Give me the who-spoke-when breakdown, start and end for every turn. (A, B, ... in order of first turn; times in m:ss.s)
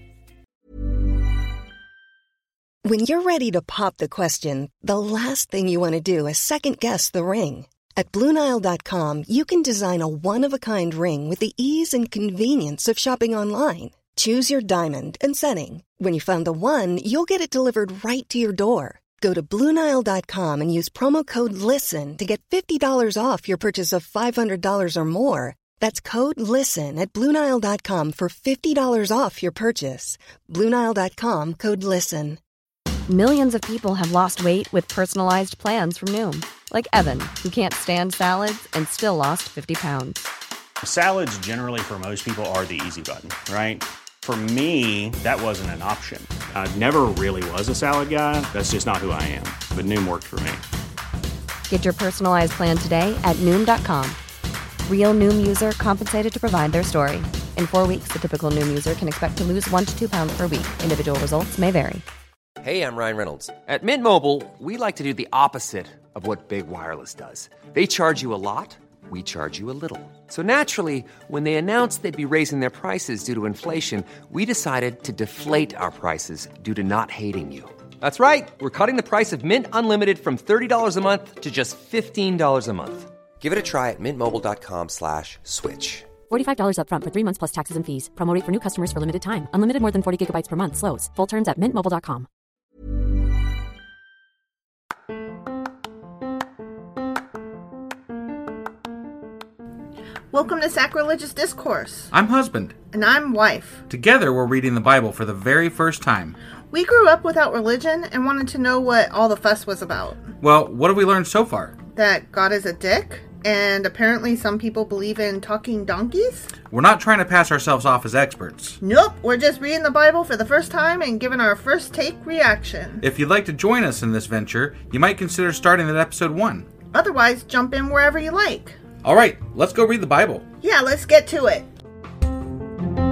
0:02.8-0:32.4 A
0:33.1-0:40.3 B
0:40.8-0:50.6 C
0:51.7-0:54.2 B
0:54.8-1:02.0 B
1:02.6-1:26.1 D
1:26.3-1:32.3 E
1:40.3-1:42.1 F
1:42.1-1:42.8 G
1:42.9-1:43.8 F
1:43.9-1:46.4 G
1:46.7-1:50.2 F
1:50.4-1:51.8 G
1:51.9-1:56.5 F
1:56.7-1:58.8 G
1:58.8-2:03.0 F
2:03.0-2:06.7 G
2:06.9-2:08.8 F
2:09.0-2:10.4 G
2:10.6-2:11.7 F